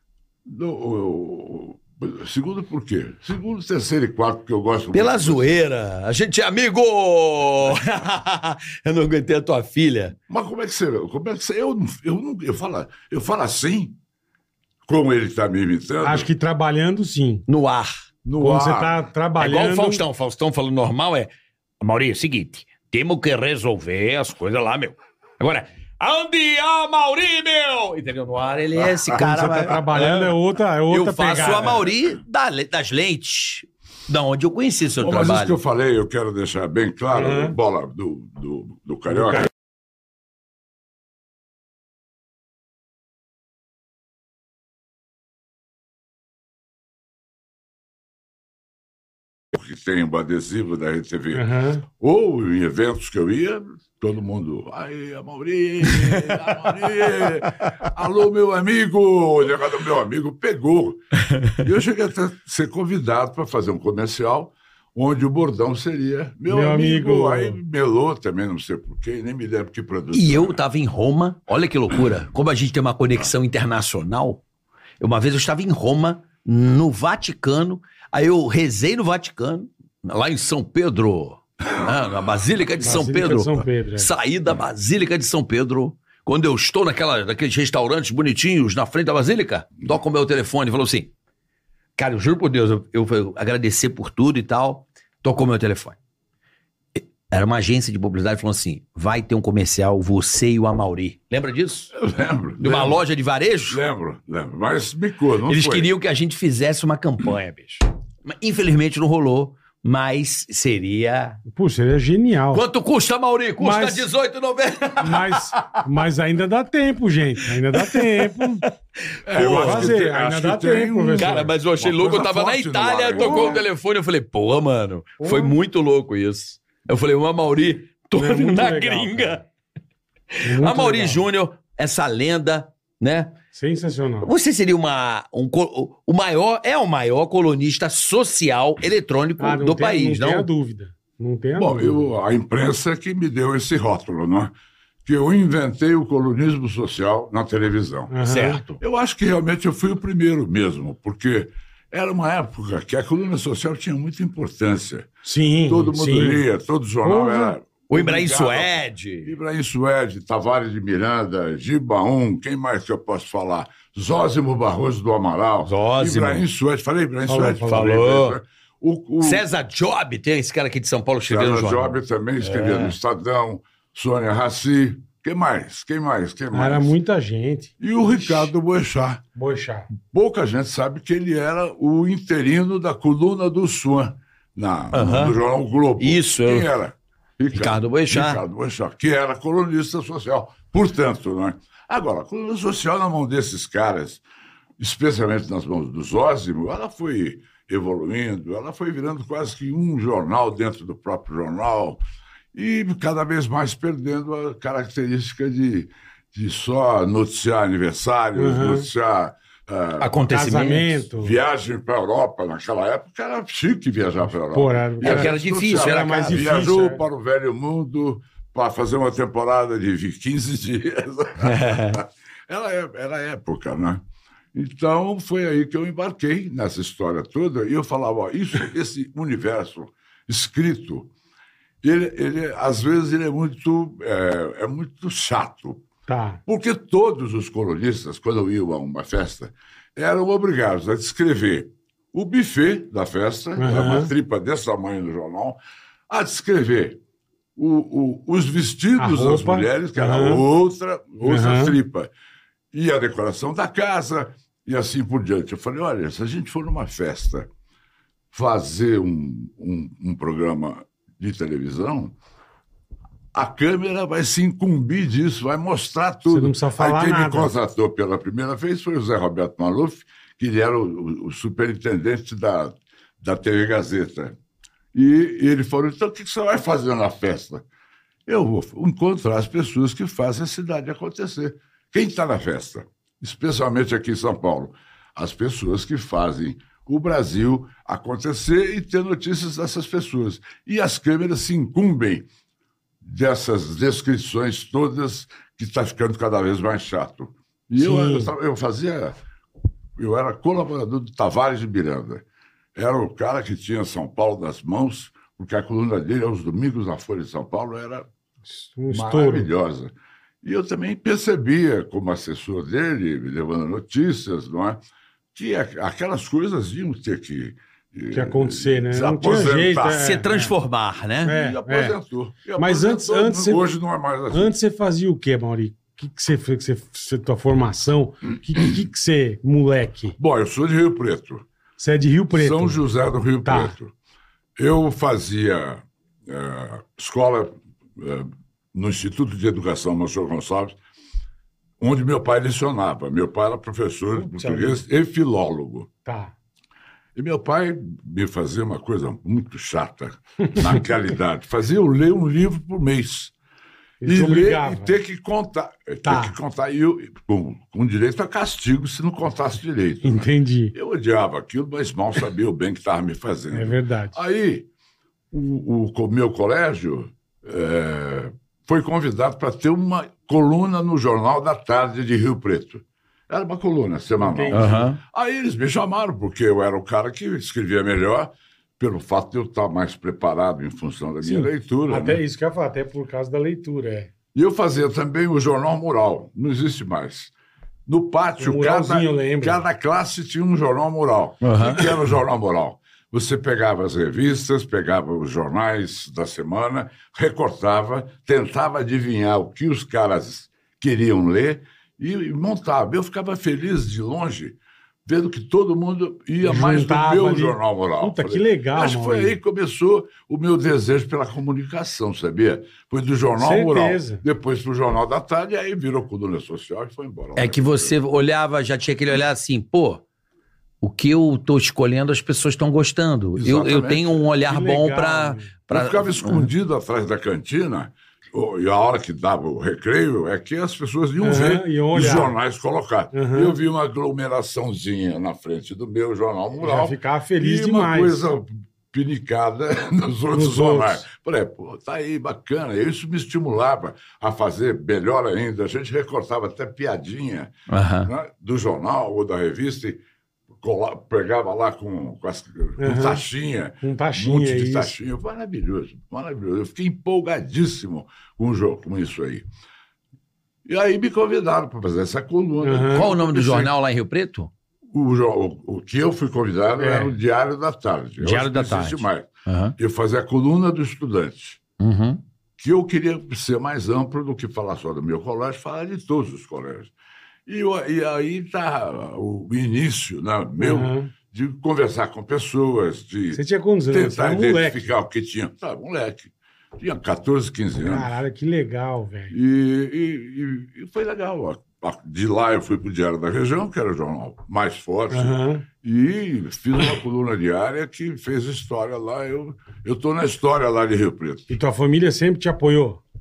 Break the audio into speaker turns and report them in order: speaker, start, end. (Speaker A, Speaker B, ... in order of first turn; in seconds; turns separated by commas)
Speaker A: 0.5-5.6, Speaker B: 4.9-10.2, Speaker A: 10.3-14.0, Speaker A: 14.9-16.3, Speaker C: 16.0-17.4, Speaker B: 17.5-18.0, Speaker A: 18.2-19.0, Speaker C: 18.4-20.0, Speaker B: 19.4-30.4, Speaker C: 29.2-31.9, Speaker B: 30.9-35.6, Speaker A: 35.0-39.5, Speaker C: 37.1-37.5, Speaker C: 39.1-39.5, Speaker A: 49.5-61.0, Speaker C: 51.3-51.8, Speaker B: 55.9-56.9, Speaker A: 61.6-70.6, Speaker C: 66.5-67.6, Speaker B: 70.1-74.4, Speaker B: 75.0-91.1, Speaker C: 82.8-84.1, Speaker B: 92.0-96.0, Speaker B: 97.0-101.9, Speaker A: 101.9-103.0, Speaker B: 102.6-103.8, Speaker A: 103.7-105.9, Speaker B: 105.5-111.4, Speaker C: 111.5-112.6, Speaker B: 112.5-115.8, Speaker C: 113.6-114.1, Speaker C: 115.0-118.6, Speaker B: 117.7-118.5, Speaker A: 119.3-123.7, Speaker B: 119.3-119.9, Speaker C: 119.4-121.5, Speaker B: 121.2-129.4, Speaker C: 123.2-123.6, Speaker C: 125.2-125.6, Speaker C: 128.2-129.4, Speaker C: 130.4-131.2, Speaker B: 130.5-133.4, Speaker C: 133.5-134.3, Speaker B: 134.2-140.5, Speaker C: 139.4-142.1, Speaker A: 141.6-144.5, Speaker A: 145.1-148.2, Speaker C: 148.1-148.6, Speaker B: 148.2-148.8, Speaker A: 148.8-155.1, Speaker C: 155.2-156.4, Speaker A: 155.7-169.5, Speaker C: 157.0-157.6, Speaker B: 157.9-159.3, Speaker B: 165.6-166.4, Speaker C: 167.3-167.9, Speaker B: 167.7-168.4, Speaker B: 169.2-173.0, Speaker A: 171.3-176.9, Speaker C: 176.5-178.5, Speaker A: 177.8-179.2, Speaker C: 179.3-179.9, Speaker A: 180.0-194.2, Speaker B: 184.9-185.4, Speaker B: 186.0-186.7, Speaker B: 187.5-188.4, Speaker A: 194.8-202.0, Speaker A: 202.5-210.2, Speaker C: 208.4-208.9, Speaker B: 210.0-211.0, Speaker C: 210.3-211.4, Speaker A: 211.2-224.0, Speaker C: 214.5-217.0, Speaker B: 215.0-216.7, Speaker B: 221.4-222.0, Speaker A: 224.5-231.1, Speaker A: 231.8-235.9, Speaker C: 236.1-236.4, Speaker A: 236.5-245.6, Speaker C: 243.6-244.1, Speaker A: 246.1-247.0, Speaker A: 247.6-252.1, Speaker C: 249.0-250.4, Speaker C: 251.2-251.8, Speaker A: 252.7-257.5, Speaker A: 258.3-262.1, Speaker A: 263.3-274.4, Speaker C: 266.3-267.5, Speaker A: 274.9-277.6, Speaker A: 278.3-292.3, Speaker A: 293.0-299.2, Speaker C: 297.8-298.3, Speaker A: 300.0-302.2, Speaker A: 302.8-308.1, Speaker C: 308.6-309.5, Speaker A: 308.9-314.8, Speaker A: 315.4-320.2, Speaker C: 318.1-320.5, Speaker B: 319.9-321.3, Speaker C: 321.2-322.0, Speaker A: 321.3-324.5, Speaker C: 322.6-323.7, Speaker C: 324.3-330.2, Speaker A: 330.2-331.4, Speaker C: 331.8-332.8, Speaker A: 332.3-333.9, Speaker C: 333.4-333.7, Speaker A: 334.6-340.8, Speaker A: 341.8-345.9, Speaker C: 344.2-344.8, Speaker C: 346.1-346.3, Speaker A: 347.1-353.3, Speaker C: 354.0-355.0, Speaker A: 354.0-364.7, Speaker C: 356.1-356.4, Speaker C: 360.0-360.7, Speaker C: 363.5-364.2, Speaker A: 365.3-382.2, Speaker C: 374.2-374.9, Speaker B: 374.5-375.0, Speaker C: 381.2-384.1, Speaker A: 384.3-387.3, Speaker A: 387.9-418.0, Speaker C: 388.4-389.6, Speaker B: 391.4-392.0, Speaker C: 406.4-409.4, Speaker C: 413.4-414.2, Speaker B: 417.4-420.0, Speaker B: 420.8-426.5, Speaker A: 423.4-424.2, Speaker C: 424.5-425.5, Speaker A: 425.7-447.5, Speaker C: 431.2-432.4, Speaker C: 433.1-433.6, Speaker C: 436.6-438.2, Speaker C: 440.3-441.1, Speaker B: 447.7-448.1, Speaker A: 448.0-450.0, Speaker A: 450.6-459.5, Speaker C: 452.8-453.2, Speaker C: 453.8-455.0, Speaker A: 460.6-463.7, Speaker C: 462.6-463.1, Speaker B: 462.9-464.5, Speaker A: 464.9-471.6, Speaker C: 466.8-467.1, Speaker B: 468.2-469.7, Speaker B: 471.8-472.2, Speaker A: 472.6-476.9, Speaker A: 477.5-488.1, Speaker C: 480.6-481.1, Speaker C: 483.3-484.8, Speaker C: 487.8-489.4, Speaker A: 489.3-501.5, Speaker C: 495.1-495.6, Speaker C: 501.5-503.0